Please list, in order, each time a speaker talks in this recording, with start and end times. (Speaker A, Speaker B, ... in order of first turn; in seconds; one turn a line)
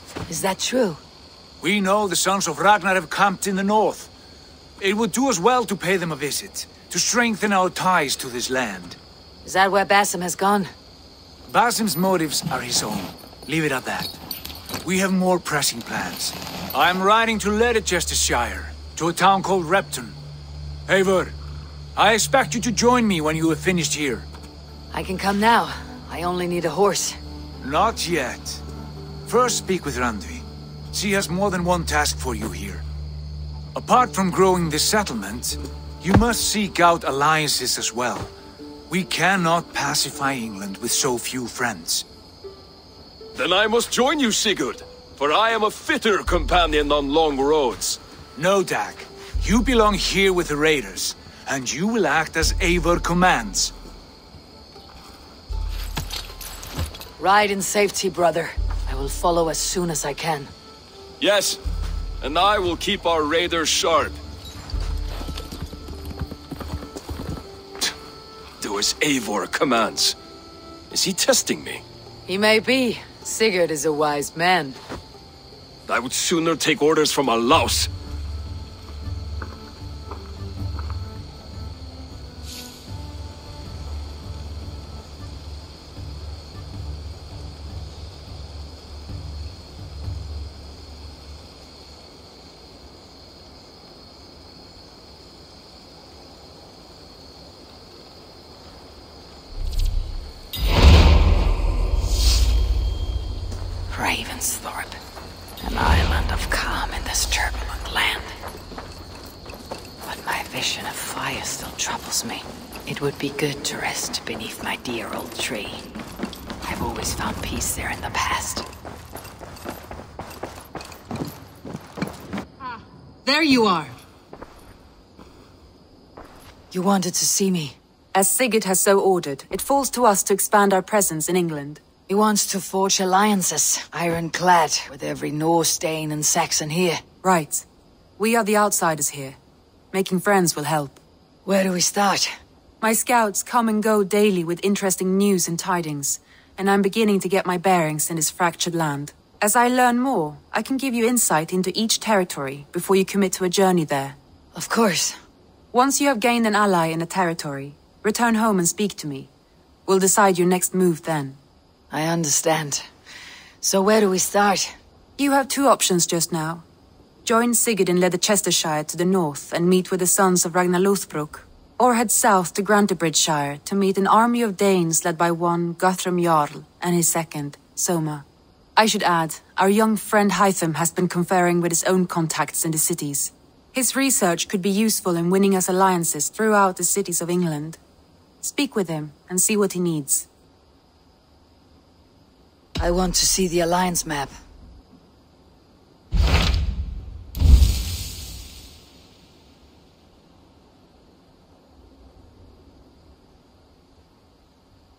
Speaker A: 0.3-1.0
Speaker B: 1.6-4.1
Speaker B: 4.8-9.0
Speaker A: 9.4-10.7
Speaker B: 11.5-14.2
Speaker B: 14.8-20.1
Speaker B: 20.9-21.3
Speaker B: 21.9-24.3
Speaker A: 24.9-27.2
Speaker B: 27.6-28.6
Speaker B: 29.2-32.8
Speaker B: 33.7-38.3
Speaker B: 38.9-42.0
Speaker C: 43.3-48.0
Speaker B: 48.4-53.7
Speaker A: 57.2-60.5
Speaker C: 61.2-61.6
Speaker C: 62.2-64.2
Speaker C: 68.6-70.1
Speaker C: 70.9-71.8
Speaker A: 72.3-74.8
Speaker C: 75.9-77.9
Speaker A: 103.9-105.0
Speaker A: 105.6-108.3
Speaker A: 110.0-115.8
Speaker A: 116.6-118.6
Speaker A: 123.2-124.0
Speaker A: 126.7-127.8
Speaker D: 128.1-131.8
Speaker A: 132.1-137.0
Speaker D: 137.2-137.7
Speaker D: 138.2-139.4
Speaker D: 139.9-141.0
Speaker A: 141.4-142.3
Speaker D: 142.8-154.2
Speaker A: 154.5-155.2
Speaker D: 155.7-159.3
Speaker D: 159.9-161.4
Speaker A: 161.9-162.8
Speaker A: 163.6-164.7
Speaker D: 165.2-166.6
Speaker D: 167.2-178.2
Speaker D: 178.8-187.8
Speaker D: 188.4-190.3
Speaker A: 192.8-194.3